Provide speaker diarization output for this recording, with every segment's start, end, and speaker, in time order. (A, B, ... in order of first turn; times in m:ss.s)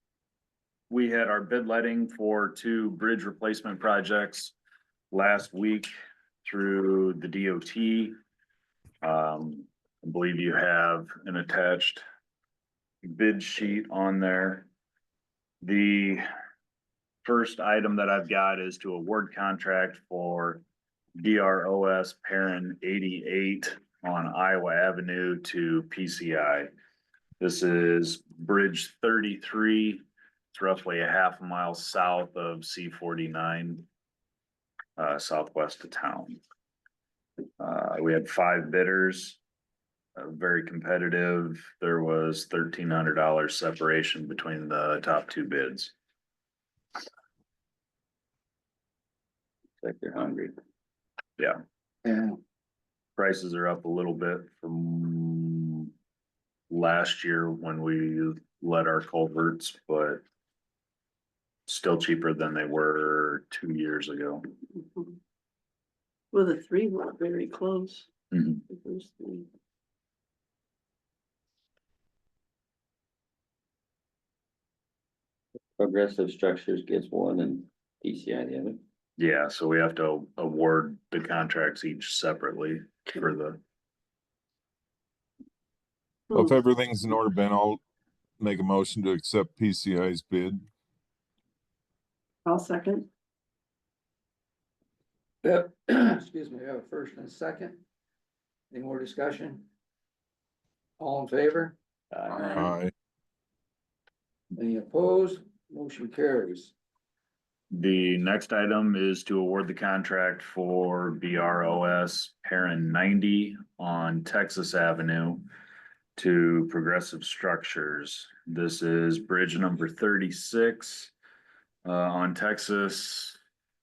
0:00.9-0:04.5 A
0:05.1-0:05.9 A
0:06.4-0:08.2 A
0:09.0-0:12.0 A
0:13.0-0:14.7 A
0:15.6-0:16.2 A
0:17.2-0:20.6 A
0:21.2-0:26.7 A
0:27.4-0:33.8 A
0:35.0-0:36.4 A
0:37.6-0:39.4 A
0:40.2-0:45.9 A
0:49.8-0:50.6 B
0:52.0-0:52.4 C
0:53.2-0:55.9 A
0:56.7-1:00.2 A
1:01.7-1:04.4 A
1:04.7-1:05.2 D
1:06.3-1:08.1 D
1:08.3-1:08.6 A
1:08.7-1:09.5 D
1:15.8-1:18.8 B
1:19.2-1:23.6 A
1:26.3-1:27.8 E
1:28.4-1:30.6 E
1:32.4-1:33.1 D
1:35.4-1:37.8 C
1:38.7-1:39.7 C
1:41.0-1:41.8 C
1:42.3-1:42.7 D
1:42.5-1:42.9 E
1:44.6-1:46.8 C
1:47.7-1:55.4 A
1:56.2-2:01.1 A
2:01.8-2:03.4 A